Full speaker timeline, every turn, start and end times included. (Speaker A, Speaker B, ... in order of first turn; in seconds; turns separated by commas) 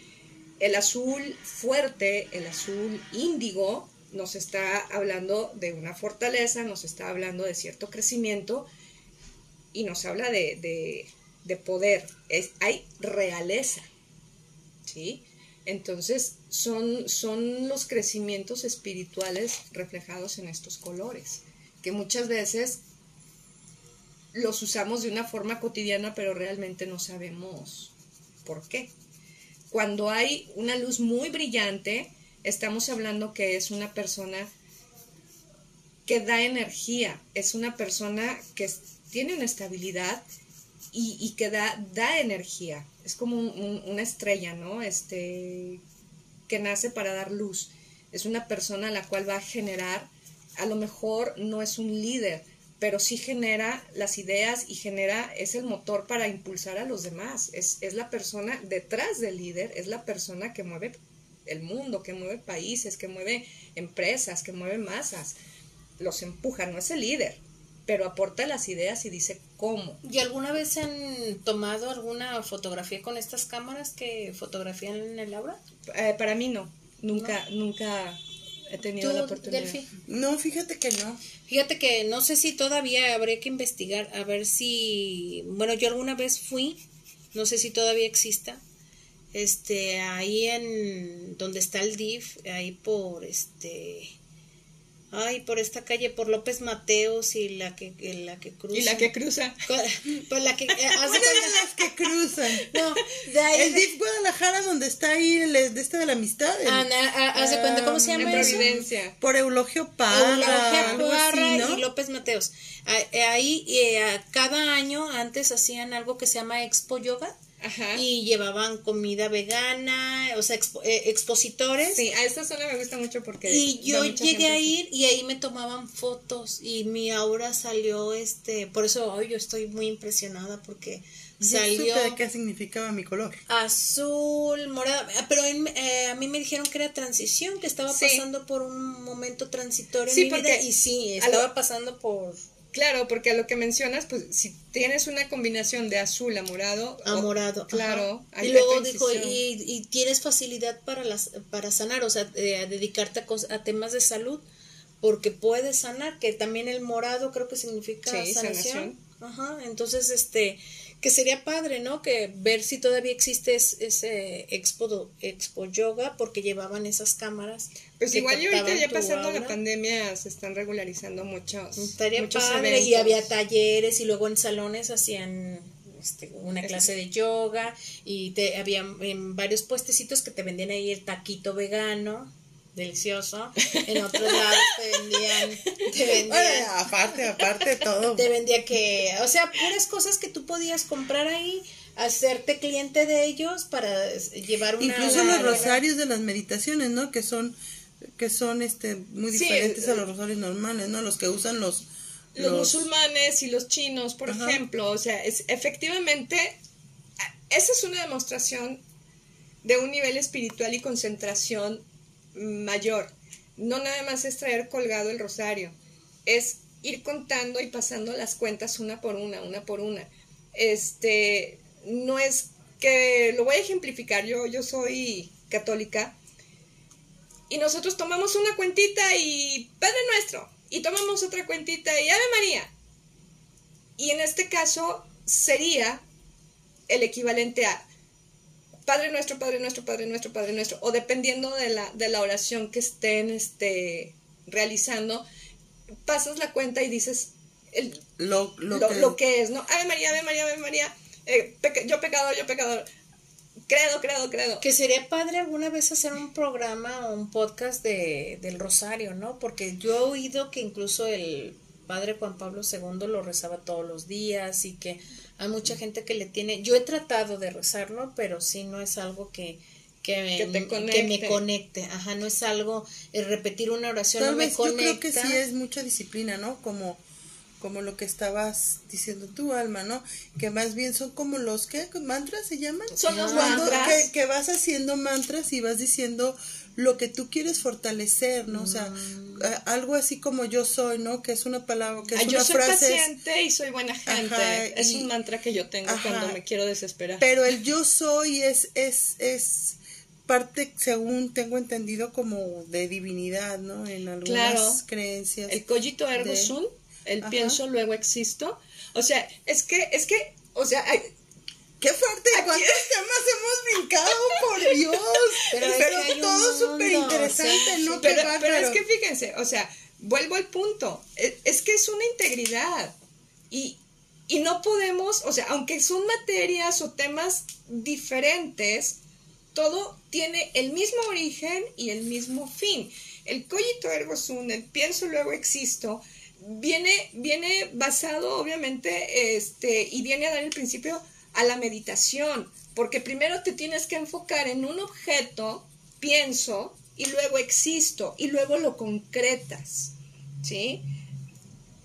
Speaker A: 0.6-8.7, Speaker A: 9.7-13.9, Speaker A: 14.9-22.8, Speaker A: 24.3-27.9, Speaker A: 28.4-28.9, Speaker A: 29.7-34.5, Speaker A: 36.1-40.3, Speaker A: 40.9-45.8, Speaker A: 46.5-65.4, Speaker A: 66.0-70.0, Speaker B: 70.0-75.6, Speaker A: 75.9-79.8, Speaker B: 79.0-79.9, Speaker C: 80.1-81.2, Speaker B: 81.5-86.8, Speaker B: 87.3-88.6, Speaker B: 89.3-94.2, Speaker B: 95.1-99.1, Speaker A: 98.7-99.6, Speaker B: 99.7-101.6, Speaker A: 100.9-101.6, Speaker C: 101.1-102.7, Speaker B: 102.7-103.9, Speaker C: 103.5-111.8, Speaker B: 106.7-108.7, Speaker A: 108.2-109.2, Speaker B: 110.1-117.4, Speaker A: 110.3-111.0, Speaker A: 117.6-118.0, Speaker B: 117.9-122.0, Speaker A: 121.9-124.7, Speaker B: 123.5-132.2, Speaker C: 131.4-133.4, Speaker B: 133.5-142.4, Speaker A: 137.9-138.2, Speaker A: 140.1-140.7, Speaker A: 141.2-141.5, Speaker A: 142.7-149.4, Speaker B: 147.1-154.5, Speaker B: 155.0-169.6, Speaker A: 158.1-158.9, Speaker A: 168.0-173.3, Speaker B: 171.8-186.7, Speaker A: 183.7-184.7, Speaker C: 186.3-188.3, Speaker B: 188.2-195.8, Speaker C: 194.8-197.6, Speaker A: 195.0-195.8, Speaker C: 198.1-202.9, Speaker A: 199.3-200.1, Speaker A: 202.3-206.6, Speaker C: 204.3-204.6, Speaker A: 207.2-208.8, Speaker A: 209.6-226.2, Speaker A: 227.5-232.7, Speaker A: 234.0-236.0, Speaker A: 236.9-237.8, Speaker A: 238.9-245.2, Speaker A: 246.1-248.0, Speaker C: 248.2-249.2, Speaker A: 248.7-252.9, Speaker A: 253.7-254.6, Speaker B: 254.6-275.4, Speaker A: 270.4-271.4, Speaker C: 274.2-277.0, Speaker C: 277.6-293.1, Speaker A: 283.0-284.1, Speaker B: 283.1-284.1, Speaker B: 288.5-289.5, Speaker A: 292.1-297.3, Speaker C: 294.1-295.1, Speaker C: 295.9-296.4, Speaker C: 297.2-305.6, Speaker A: 304.2-304.8, Speaker A: 305.5-311.1, Speaker C: 306.2-306.6, Speaker C: 307.2-307.6, Speaker C: 311.8-318.8, Speaker A: 312.3-312.9, Speaker A: 314.3-314.8, Speaker B: 315.5-318.2, Speaker A: 318.0-322.9, Speaker A: 323.5-329.0, Speaker A: 329.5-350.8